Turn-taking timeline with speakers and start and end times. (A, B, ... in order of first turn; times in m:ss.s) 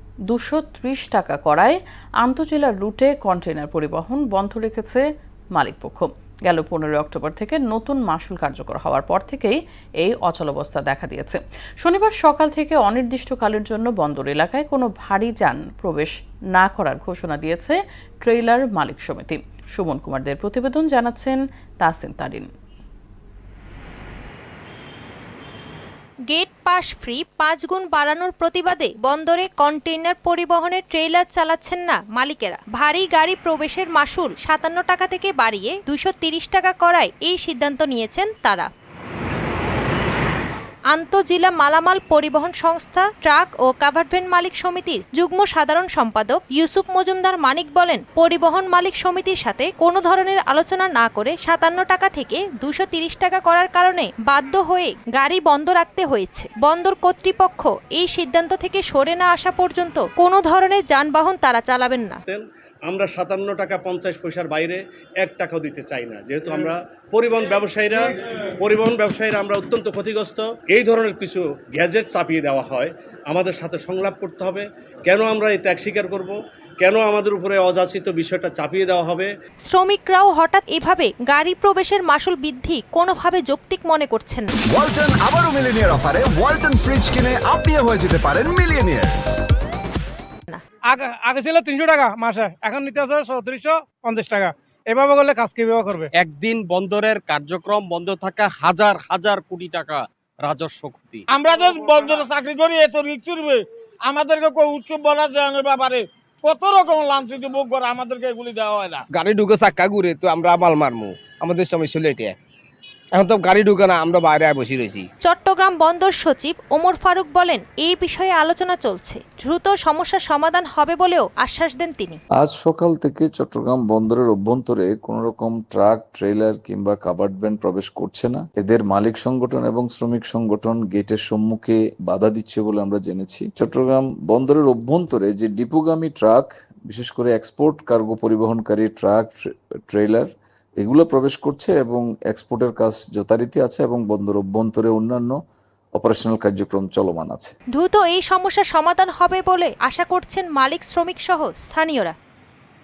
0:00.3-0:05.0 A
0:05.5-0:22.5 A
0:26.3-0:38.7 B
0:40.9-1:02.2 B
1:02.3-1:19.3 C
1:19.7-1:24.5 B
1:24.7-1:29.1 D
1:30.9-1:36.1 E
1:36.1-1:41.2 F
1:41.3-1:49.0 G
1:49.1-1:52.4 H
1:53.1-1:55.0 H
1:55.2-2:02.2 B
2:02.4-2:19.4 I
2:19.9-2:20.3 I
2:20.8-2:25.4 I
2:26.0-2:27.5 I
2:27.7-2:32.1 B